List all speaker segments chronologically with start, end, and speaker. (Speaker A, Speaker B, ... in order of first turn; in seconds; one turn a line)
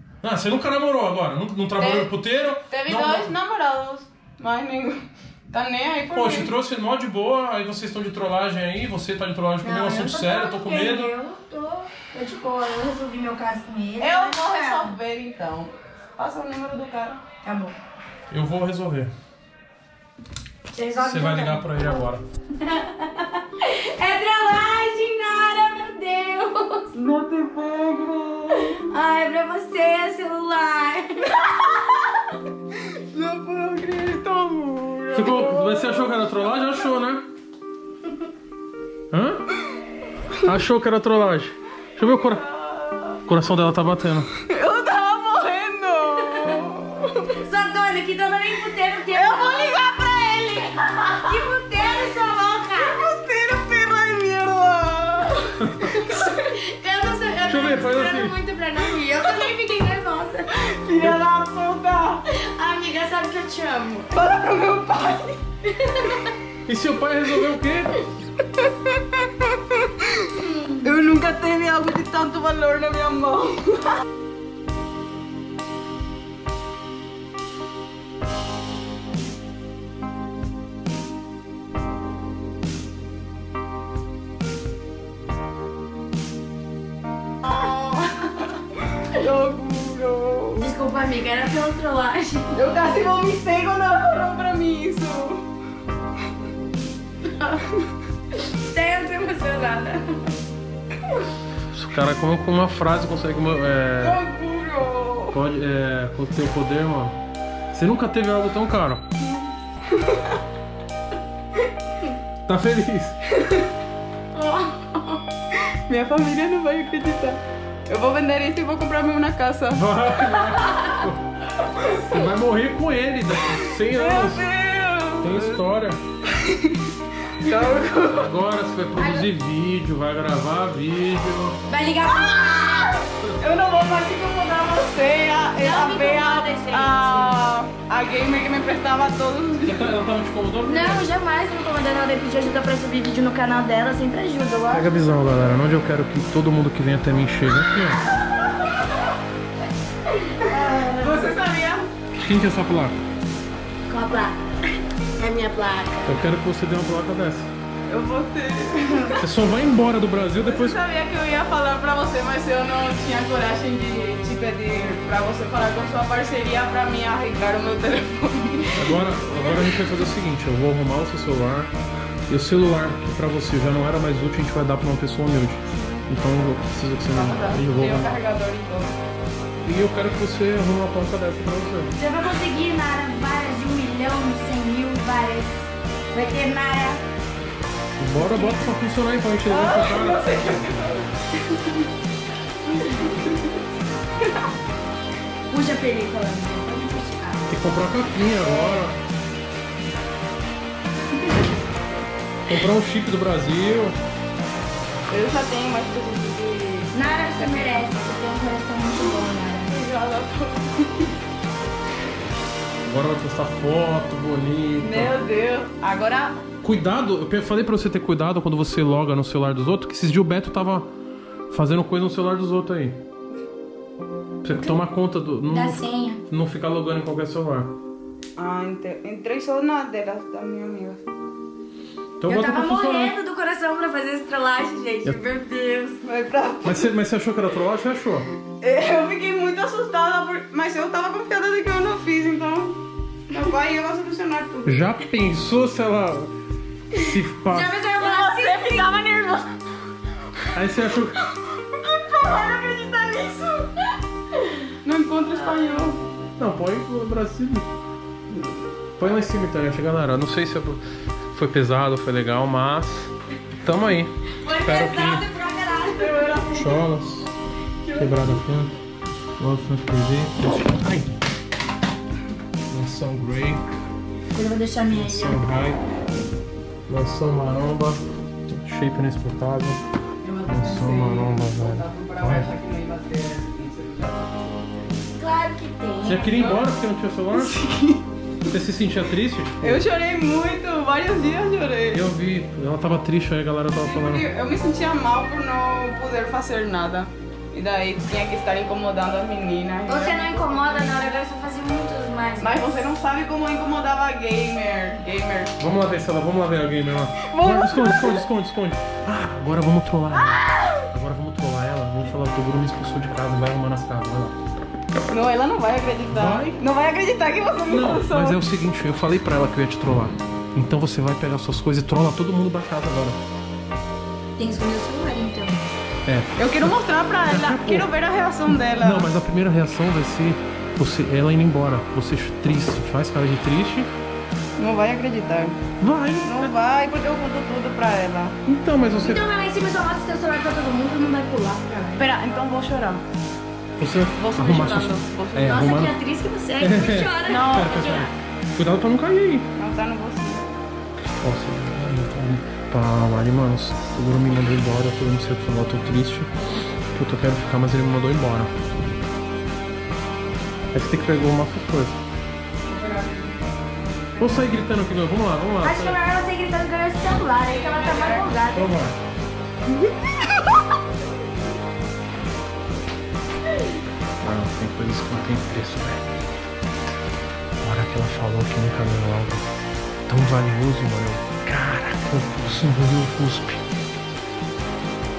Speaker A: 0.2-3.3
Speaker B: 1.8-6.5
Speaker A: 6.1-11.1
Speaker C: 9.6-15.0
Speaker B: 14.0-17.2
Speaker C: 17.4-17.8
Speaker A: 18.3-19.1
Speaker C: 20.7-21.9
Speaker A: 21.0-22.2
Speaker C: 22.6-26.9
Speaker B: 26.9-28.9
Speaker C: 28.7-31.4
Speaker B: 31.3-31.7
Speaker B: 32.7-36.5
Speaker A: 35.1-37.3
Speaker A: 39.1-39.5
Speaker A: 40.4-42.5
Speaker B: 42.2-43.2
Speaker A: 43.2-44.3
Speaker B: 44.5-47.4
Speaker C: 47.4-49.9
Speaker B: 49.1-52.1
Speaker C: 51.1-53.0
Speaker B: 52.8-56.3
Speaker A: 55.6-56.0
Speaker C: 56.0-60.5
Speaker A: 57.5-58.4
Speaker B: 60.5-62.2
Speaker C: 62.3-64.1
Speaker B: 64.1-65.4
Speaker C: 65.9-66.2
Speaker A: 66.7-68.0
Speaker B: 68.6-74.0
Speaker C: 70.4-70.8
Speaker B: 87.4-88.6
Speaker B: 89.1-90.7
Speaker C: 90.6-92.6
Speaker B: 92.5-95.4
Speaker B: 97.4-97.8
Speaker C: 98.5-100.0
Speaker A: 101.7-104.2
Speaker B: 104.0-105.4
Speaker A: 105.3-107.2
Speaker A: 107.7-109.0
Speaker B: 109.2-110.4
Speaker A: 112.5-113.2
Speaker B: 113.3-113.7
Speaker B: 114.3-115.2
Speaker B: 115.9-120.6
Speaker A: 119.7-121.2
Speaker B: 121.7-122.3
Speaker A: 122.1-124.5
Speaker B: 123.4-125.6
Speaker A: 125.2-126.0
Speaker B: 126.3-128.3
Speaker A: 128.1-131.6
Speaker C: 129.0-129.3
Speaker C: 131.7-132.9
Speaker B: 132.0-140.0
Speaker C: 135.6-137.4
Speaker A: 139.7-141.1
Speaker C: 140.7-144.9
Speaker A: 144.7-148.0
Speaker B: 150.4-151.9
Speaker C: 150.5-151.3
Speaker A: 152.2-153.0
Speaker C: 153.9-156.1
Speaker A: 156.0-157.5
Speaker B: 157.9-159.2
Speaker A: 159.2-160.8
Speaker B: 160.4-169.8
Speaker A: 168.7-171.7
Speaker A: 172.3-178.2
Speaker B: 177.1-179.0
Speaker A: 179.7-181.9
Speaker C: 182.0-187.0
Speaker A: 188.0-190.2
Speaker C: 188.2-188.7
Speaker B: 189.5-191.9
Speaker B: 192.7-193.7
Speaker C: 195.5-197.5
Speaker A: 197.5-199.0
Speaker B: 198.4-198.9
Speaker A: 202.5-204.0
Speaker B: 205.1-208.0
Speaker C: 206.9-209.8
Speaker B: 208.9-211.2
Speaker A: 212.8-215.1
Speaker B: 214.8-216.4
Speaker A: 216.6-220.9
Speaker A: 221.5-223.0
Speaker A: 224.4-227.7
Speaker C: 225.5-226.2
Speaker B: 228.4-231.0
Speaker A: 232.2-233.2
Speaker C: 232.3-236.0
Speaker B: 236.0-236.9
Speaker A: 236.6-238.3
Speaker B: 238.6-244.8
Speaker A: 244.7-246.3
Speaker A: 246.9-247.7
Speaker C: 247.5-248.9
Speaker B: 247.8-249.5
Speaker A: 250.5-251.3
Speaker B: 251.2-253.8
Speaker B: 254.8-256.0
Speaker A: 256.4-257.7
Speaker A: 259.0-265.3
Speaker C: 264.4-266.4
Speaker B: 265.9-266.9
Speaker A: 266.5-267.3
Speaker C: 267.9-268.2
Speaker A: 267.9-268.7
Speaker A: 269.4-271.1
Speaker A: 272.7-273.6
Speaker C: 274.3-275.4
Speaker A: 274.9-275.8
Speaker A: 276.9-279.8
Speaker B: 280.2-285.1
Speaker A: 280.4-282.5
Speaker C: 285.2-286.3
Speaker A: 286.0-287.6
Speaker B: 286.2-286.7
Speaker B: 287.3-288.5
Speaker A: 288.5-289.8
Speaker B: 289.6-292.1
Speaker A: 291.9-294.3
Speaker B: 293.8-301.1
Speaker C: 299.9-302.6
Speaker B: 302.4-305.5
Speaker A: 305.6-314.4
Speaker B: 307.2-308.2
Speaker B: 310.3-310.7
Speaker B: 315.1-318.4
Speaker A: 316.1-316.6
Speaker A: 317.7-323.2
Speaker C: 324.4-325.7
Speaker A: 326.1-326.7
Speaker B: 326.4-329.1
Speaker A: 327.3-327.9
Speaker A: 328.5-333.9
Speaker B: 334.6-335.6
Speaker A: 335.8-336.5
Speaker B: 336.2-338.4
Speaker A: 338.5-339.3
Speaker C: 339.0-342.1
Speaker B: 342.0-343.0
Speaker A: 343.8-345.9
Speaker B: 344.2-345.6
Speaker C: 345.4-348.1
Speaker A: 346.6-349.5
Speaker B: 347.2-348.0
Speaker B: 349.6-350.5
Speaker A: 351.1-356.3
Speaker A: 356.9-358.5
Speaker A: 360.7-362.0
Speaker B: 362.7-363.4
Speaker B: 364.1-364.5
Speaker A: 364.2-366.0
Speaker C: 365.6-368.7
Speaker B: 367.4-368.4
Speaker A: 368.5-369.0
Speaker A: 374.2-376.1
Speaker A: 377.6-379.5
Speaker A: 380.1-383.6